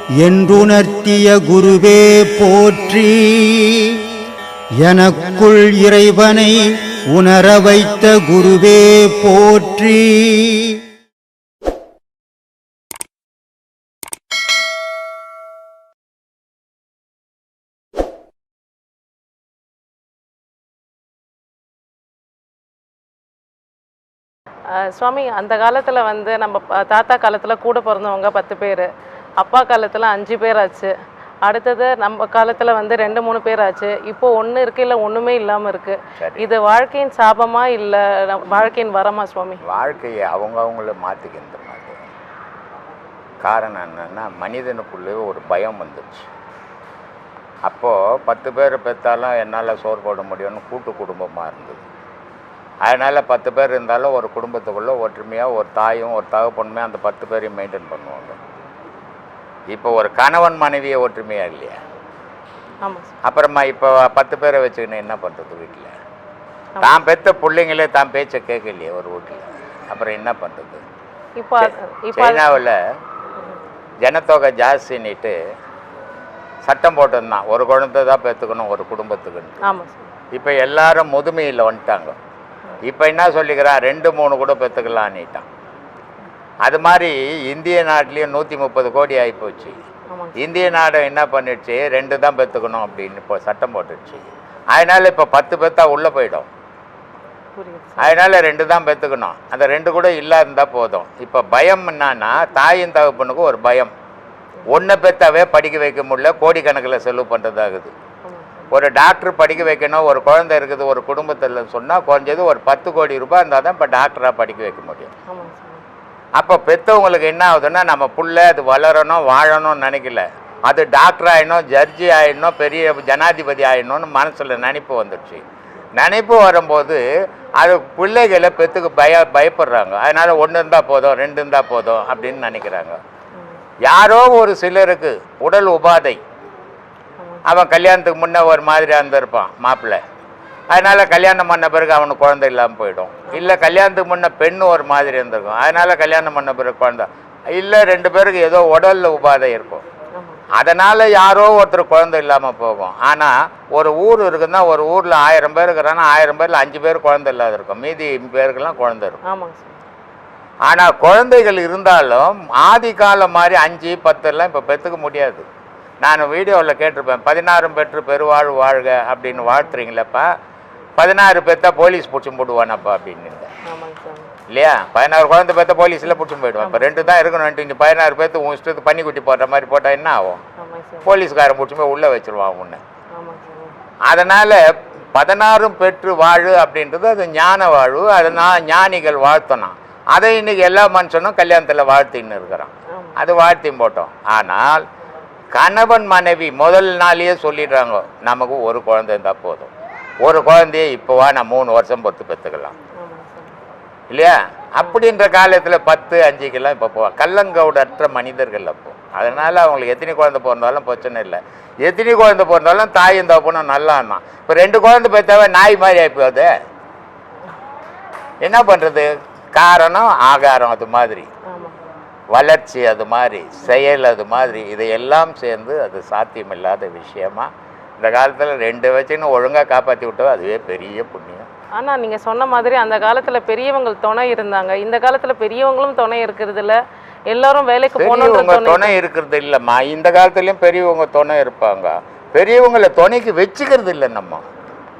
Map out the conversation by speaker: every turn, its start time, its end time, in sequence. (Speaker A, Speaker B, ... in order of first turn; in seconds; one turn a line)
Speaker A: 0.2-3.9
Speaker A: 4.8-10.8
Speaker B: 24.8-28.9
Speaker B: 29.4-39.6
Speaker C: 36.2-36.5
Speaker C: 39.6-42.0
Speaker C: 43.4-46.3
Speaker C: 47.6-51.8
Speaker C: 52.8-58.4
Speaker C: 59.7-61.8
Speaker B: 62.8-63.1
Speaker C: 63.2-65.9
Speaker C: 66.8-70.8
Speaker B: 71.4-72.5
Speaker C: 71.6-72.7
Speaker C: 74.0-75.3
Speaker C: 76.6-79.6
Speaker B: 79.6-80.1
Speaker C: 80.3-82.2
Speaker C: 82.8-85.4
Speaker C: 86.6-89.8
Speaker B: 90.1-90.4
Speaker C: 90.4-96.5
Speaker B: 97.5-98.2
Speaker C: 98.0-103.9
Speaker C: 104.7-107.9
Speaker B: 108.2-108.7
Speaker C: 108.7-115.1
Speaker B: 115.3-115.8
Speaker C: 116.4-125.4
Speaker C: 126.0-127.0
Speaker C: 127.6-133.0
Speaker C: 133.8-136.2
Speaker C: 137.4-140.0
Speaker C: 140.7-149.8
Speaker B: 143.3-143.6
Speaker B: 150.1-150.4
Speaker C: 150.5-159.2
Speaker B: 159.2-159.8
Speaker C: 160.7-165.4
Speaker C: 166.0-170.3
Speaker B: 169.3-169.8
Speaker C: 171.0-173.5
Speaker B: 173.7-174.3
Speaker C: 174.5-180.4
Speaker B: 176.6-177.1
Speaker B: 180.6-181.1
Speaker C: 181.0-182.8
Speaker B: 183.1-183.8
Speaker C: 184.1-184.6
Speaker C: 185.1-194.8
Speaker B: 192.9-193.2
Speaker C: 195.5-202.7
Speaker B: 203.0-203.6
Speaker C: 204.1-216.5
Speaker C: 218.4-221.3
Speaker B: 221.5-221.8
Speaker C: 222.3-227.5
Speaker C: 228.0-231.5
Speaker B: 231.8-239.0
Speaker C: 237.9-244.4